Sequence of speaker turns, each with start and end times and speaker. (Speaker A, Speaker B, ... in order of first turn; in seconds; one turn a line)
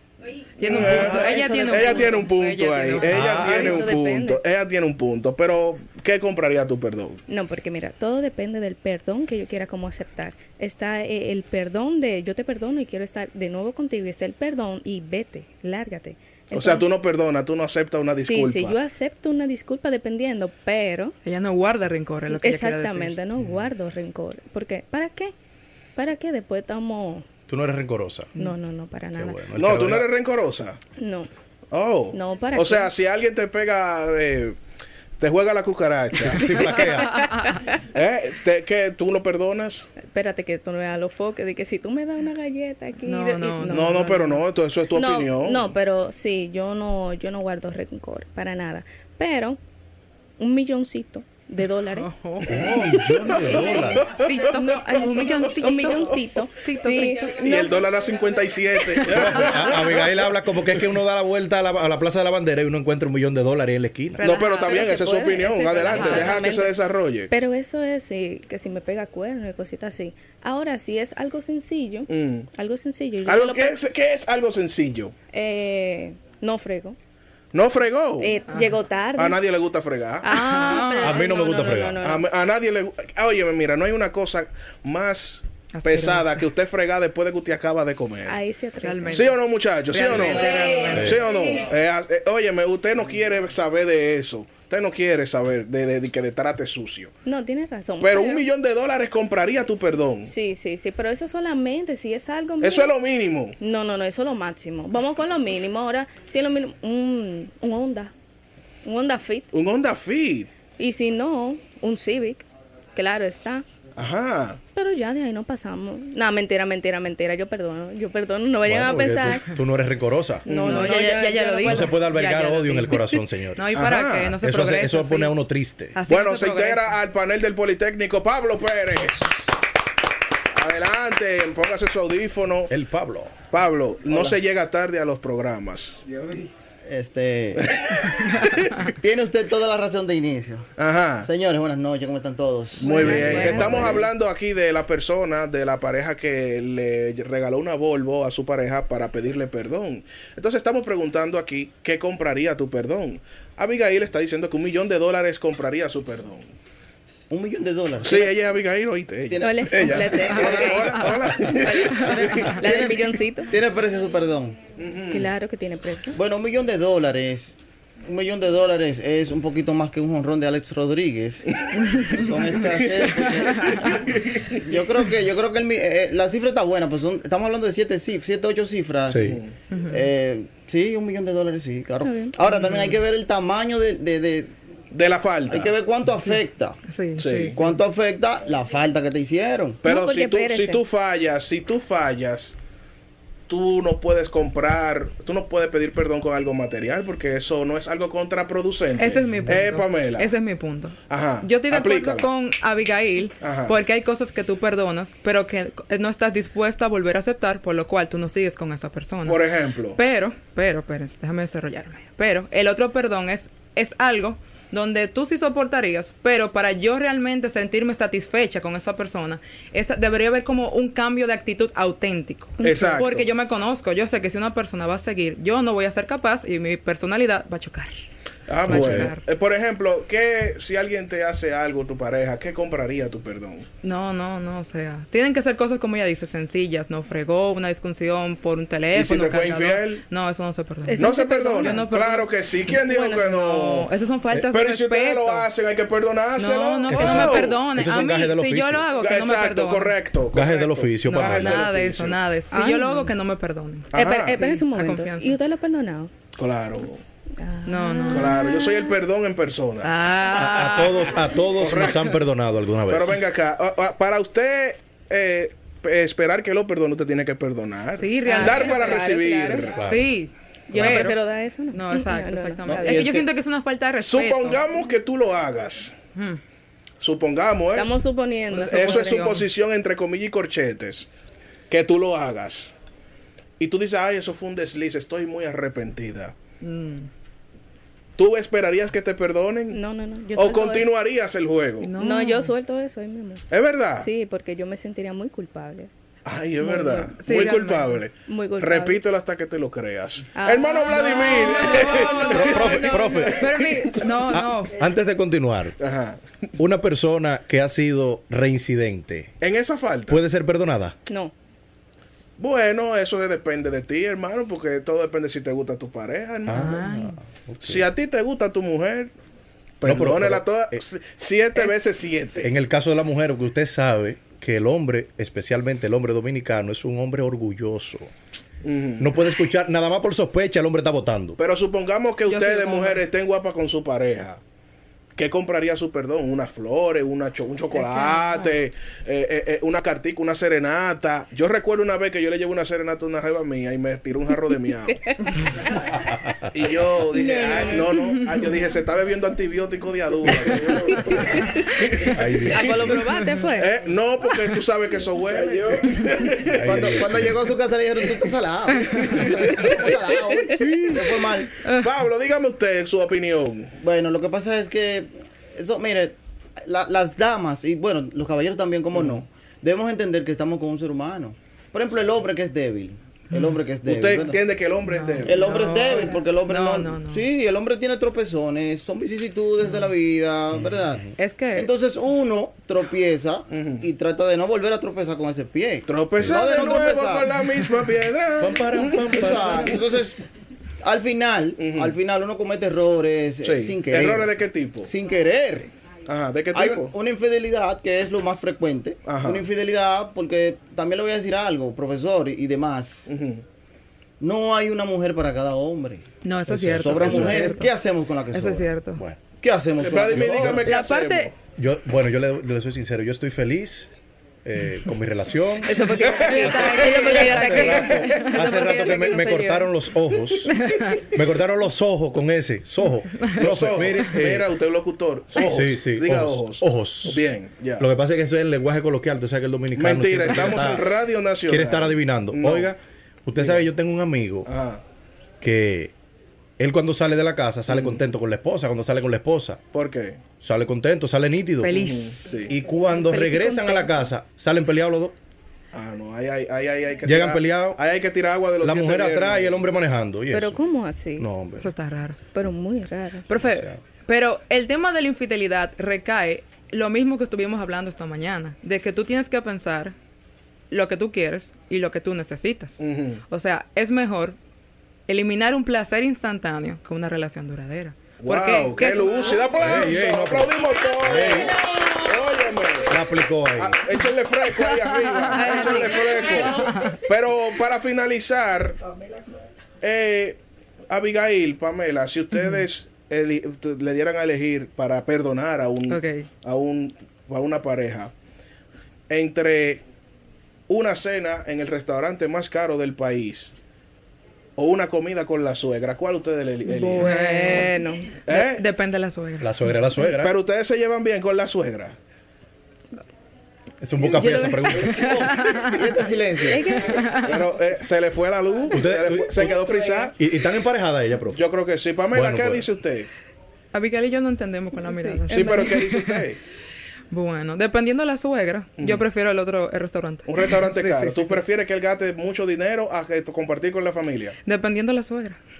Speaker A: 0.6-3.1
Speaker B: 0.6-7.2
Speaker C: 0.7-2.2
Speaker D: 3.0-3.9
Speaker C: 3.1-4.4
Speaker C: 7.3-16.9
Speaker B: 16.5-18.8
Speaker C: 18.2-21.1
Speaker A: 21.2-23.2
Speaker C: 22.3-25.3
Speaker C: 26.0-27.3
Speaker D: 27.5-28.3
Speaker C: 28.4-29.4
Speaker D: 29.2-30.1
Speaker B: 29.6-30.8
Speaker C: 31.0-31.3
Speaker B: 31.7-34.6
Speaker C: 32.1-32.9
Speaker B: 35.2-36.8
Speaker D: 36.2-37.2
Speaker C: 36.4-37.7
Speaker A: 37.2-37.6
Speaker B: 37.9-39.9
Speaker C: 40.0-44.4
Speaker A: 43.1-44.1
Speaker B: 43.6-45.7
Speaker C: 44.9-49.6
Speaker C: 50.4-52.1
Speaker A: 51.9-53.0
Speaker D: 52.5-54.0
Speaker B: 52.8-54.4
Speaker C: 53.1-57.9
Speaker A: 54.0-57.4
Speaker B: 57.4-60.0
Speaker A: 58.9-59.5
Speaker D: 59.1-64.2
Speaker A: 64.2-64.9
Speaker B: 64.2-67.3
Speaker C: 64.4-66.8
Speaker A: 65.8-66.4
Speaker C: 67.3-73.8
Speaker B: 72.1-72.5
Speaker B: 73.2-75.1
Speaker C: 75.3-77.0
Speaker B: 77.5-78.3
Speaker C: 78.2-79.4
Speaker B: 79.2-80.3
Speaker C: 80.2-82.3
Speaker A: 80.3-81.2
Speaker D: 81.0-82.0
Speaker B: 82.0-88.4
Speaker A: 85.7-86.5
Speaker C: 88.2-89.3
Speaker A: 88.8-89.3
Speaker B: 89.1-97.1
Speaker A: 89.9-91.2
Speaker C: 90.1-91.0
Speaker D: 90.9-91.2
Speaker C: 97.2-98.5
Speaker B: 98.0-100.3
Speaker C: 100.2-102.9
Speaker B: 102.6-103.6
Speaker C: 103.6-108.1
Speaker C: 108.8-109.5
Speaker B: 109.5-110.5
Speaker C: 110.8-113.7
Speaker B: 114.0-114.6
Speaker C: 114.8-119.5
Speaker D: 118.7-120.5
Speaker C: 120.5-122.0
Speaker B: 120.5-121.0
Speaker A: 120.6-125.3
Speaker D: 121.6-123.9
Speaker B: 123.7-124.4
Speaker D: 124.4-126.0
Speaker A: 126.0-127.0
Speaker B: 126.1-129.6
Speaker B: 130.5-132.7
Speaker D: 132.7-133.4
Speaker B: 133.5-136.0
Speaker E: 136.9-137.8
Speaker B: 137.7-138.6
Speaker E: 138.8-144.1
Speaker B: 140.8-141.3
Speaker C: 142.8-144.1
Speaker B: 142.8-156.5
Speaker E: 157.3-158.3
Speaker B: 158.0-162.3
Speaker E: 159.3-160.1
Speaker C: 159.4-163.5
Speaker A: 160.2-161.1
Speaker A: 161.9-162.5
Speaker E: 162.0-164.6
Speaker B: 164.8-165.3
Speaker C: 165.1-166.2
Speaker E: 166.2-184.5
Speaker A: 171.8-172.6
Speaker B: 172.3-174.6
Speaker A: 173.2-173.8
Speaker D: 179.1-179.4
Speaker B: 179.2-179.5
Speaker A: 179.7-180.1
Speaker C: 182.0-182.3
Speaker A: 182.5-183.0
Speaker B: 184.9-185.7
Speaker E: 185.5-186.8
Speaker A: 186.9-187.7
Speaker B: 187.2-187.6
Speaker E: 187.5-189.8
Speaker B: 189.8-192.6
Speaker C: 189.8-190.8
Speaker B: 193.5-200.3
Speaker A: 199.0-228.0
Speaker B: 201.1-202.3
Speaker B: 203.4-203.8
Speaker B: 209.3-210.0
Speaker C: 222.6-223.0
Speaker B: 222.6-223.3
Speaker B: 228.5-233.7
Speaker A: 228.6-229.2
Speaker D: 228.7-229.1
Speaker A: 233.8-242.3
Speaker B: 238.9-240.0
Speaker C: 240.8-241.8
Speaker B: 241.0-247.7
Speaker C: 242.7-243.3
Speaker A: 243.2-245.5
Speaker A: 246.4-250.0
Speaker D: 246.9-248.9
Speaker B: 249.0-252.2
Speaker D: 250.3-251.7
Speaker A: 251.0-255.4
Speaker C: 252.5-253.1
Speaker B: 253.9-254.4
Speaker C: 253.9-256.1
Speaker B: 256.4-257.0
Speaker C: 257.4-259.0
Speaker A: 257.7-258.4
Speaker B: 258.1-259.9
Speaker A: 259.8-261.1
Speaker D: 260.3-263.2
Speaker B: 261.6-262.1
Speaker B: 262.9-269.8
Speaker A: 267.9-271.2
Speaker C: 268.2-269.7
Speaker D: 269.8-270.1
Speaker C: 270.7-273.2
Speaker D: 270.8-271.1
Speaker A: 271.7-274.6
Speaker E: 272.7-273.2
Speaker B: 274.0-275.9
Speaker A: 276.1-276.4
Speaker B: 277.0-277.9
Speaker C: 277.8-279.1
Speaker B: 278.5-281.1
Speaker A: 278.5-279.5
Speaker B: 281.7-282.7
Speaker B: 283.6-286.4
Speaker A: 286.6-287.1
Speaker B: 288.2-289.8
Speaker C: 289.7-290.9
Speaker B: 290.4-291.9
Speaker A: 291.8-292.5
Speaker C: 292.0-295.9
Speaker B: 293.5-294.1
Speaker B: 296.2-304.1
Speaker C: 296.6-297.3
Speaker A: 297.2-298.0
Speaker C: 298.3-299.0
Speaker C: 300.3-303.4
Speaker A: 300.9-304.8
Speaker D: 302.3-303.4
Speaker D: 304.3-305.8
Speaker B: 305.8-306.2
Speaker D: 306.6-309.3
Speaker B: 309.4-310.2
Speaker D: 310.1-310.9
Speaker C: 311.1-311.3
Speaker B: 312.4-316.8
Speaker D: 316.5-317.9
Speaker A: 316.5-317.2
Speaker B: 317.6-319.1
Speaker B: 319.8-322.5
Speaker D: 319.8-320.8
Speaker D: 322.4-328.1
Speaker B: 328.6-329.1
Speaker D: 329.0-331.4
Speaker B: 331.4-334.4
Speaker A: 332.3-333.1
Speaker B: 335.2-344.9
Speaker A: 337.8-338.6
Speaker C: 344.9-345.6
Speaker B: 346.5-352.6
Speaker C: 347.1-348.1
Speaker C: 350.7-351.6
Speaker D: 352.1-353.0
Speaker C: 352.5-353.8
Speaker B: 353.6-357.0
Speaker D: 356.5-357.4
Speaker E: 356.6-361.5
Speaker A: 358.7-359.3
Speaker C: 360.5-360.8
Speaker A: 361.6-362.0
Speaker B: 361.8-363.7
Speaker E: 363.8-374.4
Speaker B: 368.9-369.2
Speaker A: 373.3-373.6
Speaker B: 373.8-375.4
Speaker A: 374.9-377.3
Speaker E: 375.2-387.4
Speaker A: 379.6-379.9
Speaker D: 380.6-380.8
Speaker A: 381.2-381.7
Speaker B: 383.5-383.9
Speaker B: 385.9-389.6
Speaker D: 386.2-386.4
Speaker D: 388.4-389.9
Speaker E: 389.1-390.2
Speaker E: 390.8-395.7
Speaker B: 391.6-392.0
Speaker B: 393.4-394.9
Speaker B: 396.1-396.9
Speaker E: 396.5-403.1
Speaker B: 399.1-399.5
Speaker B: 403.1-403.4
Speaker E: 404.2-406.1
Speaker A: 406.2-407.7
Speaker D: 406.5-407.0
Speaker E: 406.7-408.7
Speaker B: 406.9-407.6
Speaker A: 408.3-409.0
Speaker D: 409.0-409.2
Speaker E: 409.4-410.7
Speaker B: 409.8-411.4
Speaker D: 410.1-410.6
Speaker A: 410.5-411.3
Speaker D: 411.6-413.9
Speaker D: 414.4-420.5
Speaker C: 415.6-419.7
Speaker B: 416.0-418.3
Speaker A: 416.2-417.9
Speaker A: 420.5-421.1
Speaker D: 421.1-424.5
Speaker A: 423.2-423.5
Speaker B: 423.3-427.9
Speaker A: 424.0-424.3
Speaker D: 425.3-427.2
Speaker D: 427.8-430.9
Speaker B: 429.8-432.7
Speaker D: 431.4-434.5
Speaker B: 433.4-433.7
Speaker B: 434.5-434.8
Speaker D: 435.4-435.9
Speaker D: 436.6-439.6
Speaker B: 437.7-438.0
Speaker B: 439.7-440.3
Speaker D: 440.4-441.9
Speaker A: 441.6-442.3
Speaker B: 441.7-442.5
Speaker D: 442.5-445.2
Speaker C: 442.8-444.1
Speaker B: 445.7-449.6
Speaker D: 447.1-447.8
Speaker D: 448.6-450.6
Speaker C: 450.3-451.3
Speaker D: 451.2-451.7
Speaker A: 451.6-452.2
Speaker C: 452.3-453.3
Speaker A: 453.3-459.9
Speaker D: 453.4-453.8
Speaker A: 460.7-464.4
Speaker B: 462.8-463.2
Speaker A: 465.1-469.6
Speaker B: 468.2-473.0
Speaker D: 469.6-471.6
Speaker D: 472.9-473.8
Speaker B: 473.5-478.8
Speaker A: 475.3-476.9
Speaker C: 475.4-475.8
Speaker B: 479.8-488.1
Speaker A: 482.3-482.6
Speaker A: 485.9-486.3
Speaker B: 489.1-489.8
Speaker B: 490.7-493.6
Speaker B: 494.6-497.1
Speaker C: 496.6-498.2
Speaker A: 497.0-497.7
Speaker B: 498.3-498.7
Speaker A: 498.3-499.5
Speaker D: 499.4-500.3
Speaker B: 500.2-502.0
Speaker D: 503.8-505.0
Speaker C: 504.0-505.4
Speaker A: 504.8-505.8
Speaker E: 505.0-506.8
Speaker C: 506.4-507.1
Speaker A: 506.8-507.3
Speaker B: 507.2-510.1
Speaker D: 508.7-511.4
Speaker B: 511.3-513.1
Speaker D: 512.1-512.7
Speaker A: 513.7-516.2
Speaker C: 514.8-515.9
Speaker B: 515.3-516.4
Speaker A: 517.1-521.4
Speaker B: 518.8-519.0
Speaker B: 520.2-524.4
Speaker A: 524.5-525.4